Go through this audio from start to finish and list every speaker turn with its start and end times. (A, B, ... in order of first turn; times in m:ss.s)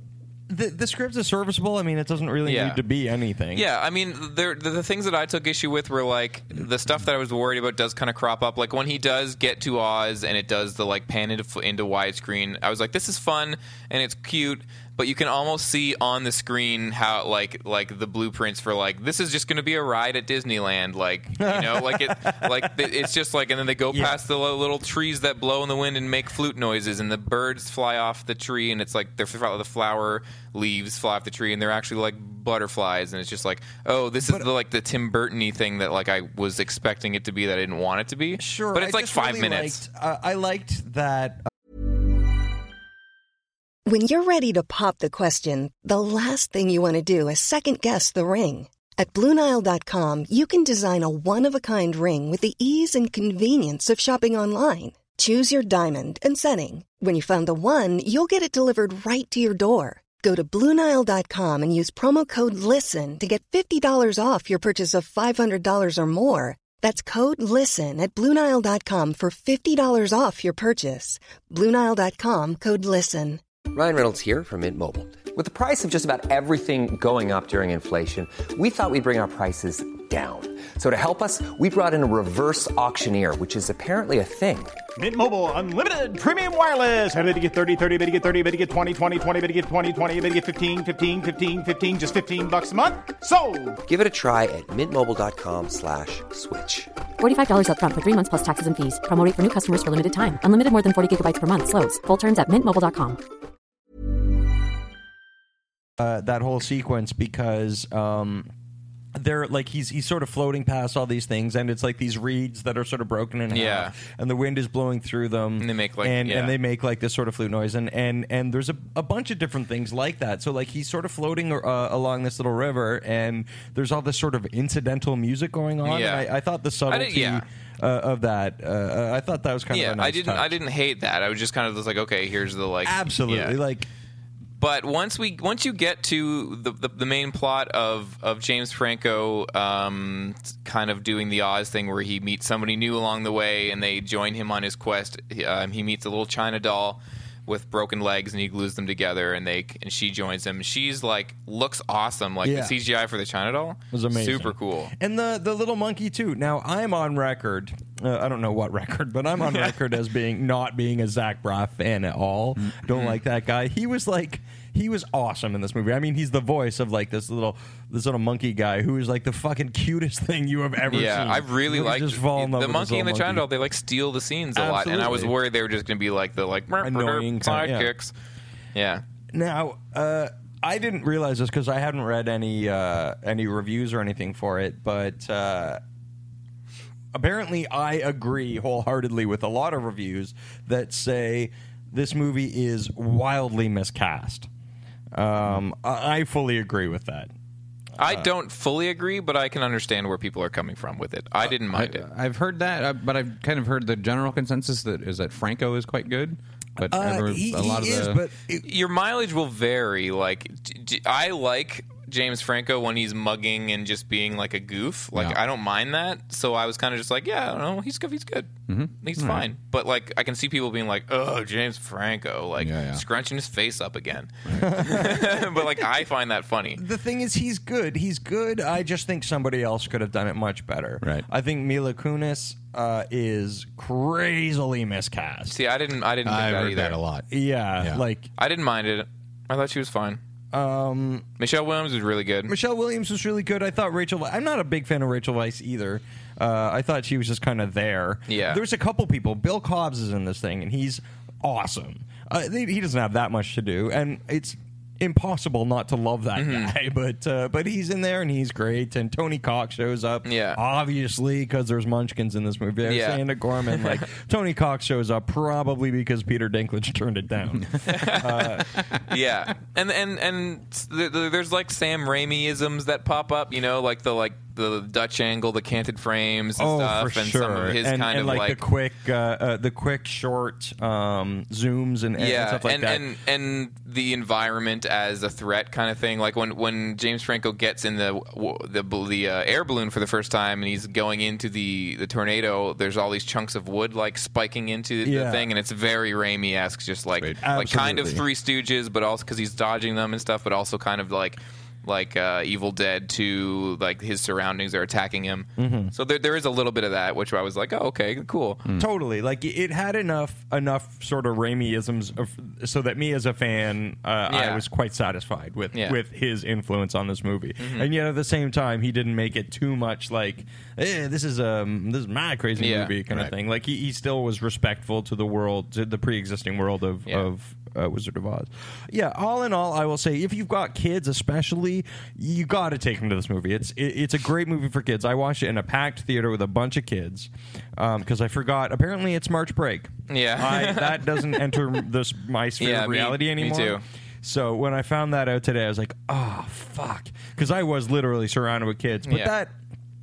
0:00.5-0:03.6 A
0:02.4-0:02.8 B
0:03.5-0:39.8 B
0:21.4-0:22.9 A
0:23.9-0:24.2 A
0:38.4-0:41.4 A
0:43.9-1:13.4 C
1:13.7-1:24.8 D
1:25.0-1:33.8 E
1:33.8-1:36.9 D
1:37.2-1:43.2 F
1:46.0-1:48.5 A
1:49.1-2:10.6 A
1:53.5-1:53.9 B
1:55.6-1:56.6 B
2:05.8-2:06.3 B
2:06.9-2:07.4 B
2:09.7-2:13.6 B
2:12.8-2:13.9 A
2:14.6-2:34.9 B
2:32.4-2:32.8 A
2:33.9-2:53.5 A
2:42.9-2:43.2 B
2:50.9-2:58.1 B
2:54.6-2:55.3 A
2:56.8-2:57.9 A
2:58.7-2:59.0 B
2:59.3-3:05.8 A
3:07.1-3:14.5 A
3:15.1-3:17.3 A
3:18.0-3:22.0 B
3:18.0-3:18.3 A
3:21.4-3:28.2 G
3:26.8-3:28.6 A
3:28.6-3:38.5 B
3:38.7-3:39.4 G
3:39.0-3:46.8 B
3:42.6-3:43.0 G
3:44.5-3:44.7 G
3:44.6-3:45.6 A
3:46.8-3:55.6 A
3:55.5-3:57.0 B
3:56.2-3:58.0 G
3:57.3-3:58.3 A
3:58.4-4:00.2 B
4:00.5-4:01.2 A
4:01.4-4:02.5 B
4:02.5-4:28.7 A
4:08.3-4:08.6 B
4:16.4-4:16.7 B
4:20.2-4:20.6 B
4:22.8-4:24.0 B
4:27.8-4:38.6 B
4:36.6-4:43.0 A
4:42.2-5:08.6 B
4:55.0-4:55.5 A
4:57.4-4:58.2 A
5:05.6-5:05.9 A
5:08.8-5:49.5 A
5:14.3-5:14.6 B
5:17.6-5:17.9 B
5:22.6-5:22.9 B
5:40.1-5:41.6 B
5:42.6-5:43.8 B
5:49.1-5:49.3 B